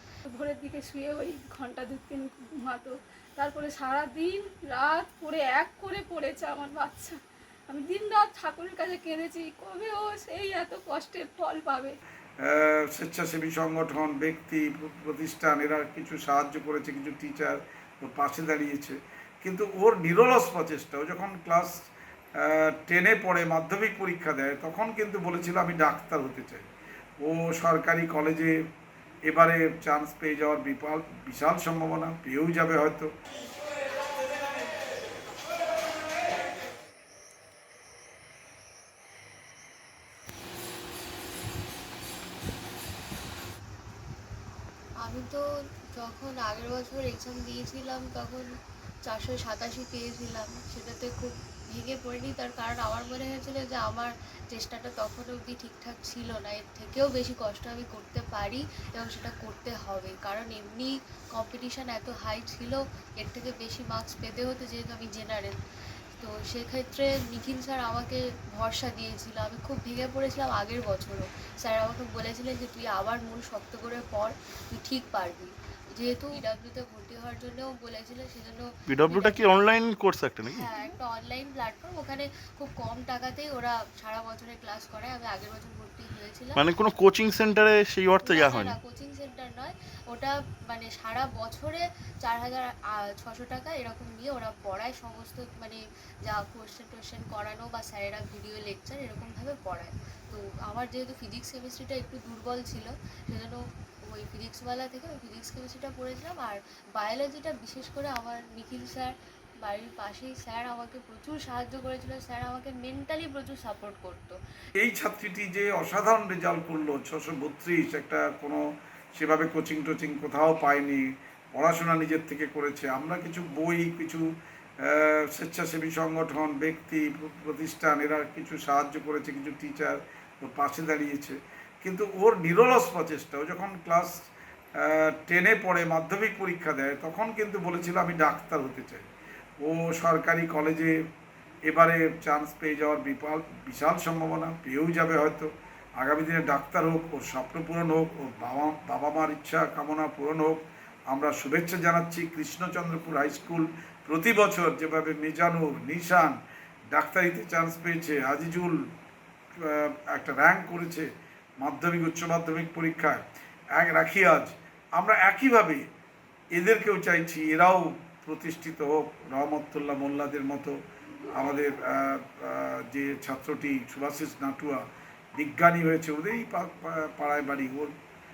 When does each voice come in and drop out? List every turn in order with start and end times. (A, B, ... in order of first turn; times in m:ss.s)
0:00.3-0:07.2 A
0:07.7-0:12.0 A
0:12.4-0:21.7 B
0:22.4-0:26.7 B
0:27.2-0:28.5 B
0:29.3-0:33.1 B
0:45.0-1:05.6 C
1:06.2-1:19.7 C
1:18.9-1:20.7 D
1:20.5-1:26.6 C
1:26.6-1:28.8 D
1:28.2-1:54.4 C
1:54.8-1:58.6 B
1:59.2-2:01.0 B
2:01.5-2:04.2 B
2:04.8-2:14.1 B
2:14.8-2:19.1 B
2:19.6-2:20.9 B
2:21.7-2:30.6 B
2:31.1-2:36.4 B
2:36.9-2:38.8 B
2:39.6-2:41.1 B
2:41.6-2:43.2 B
2:43.8-2:45.8 B
2:46.5-2:50.8 B
2:51.3-2:54.8 B
2:55.4-2:57.9 B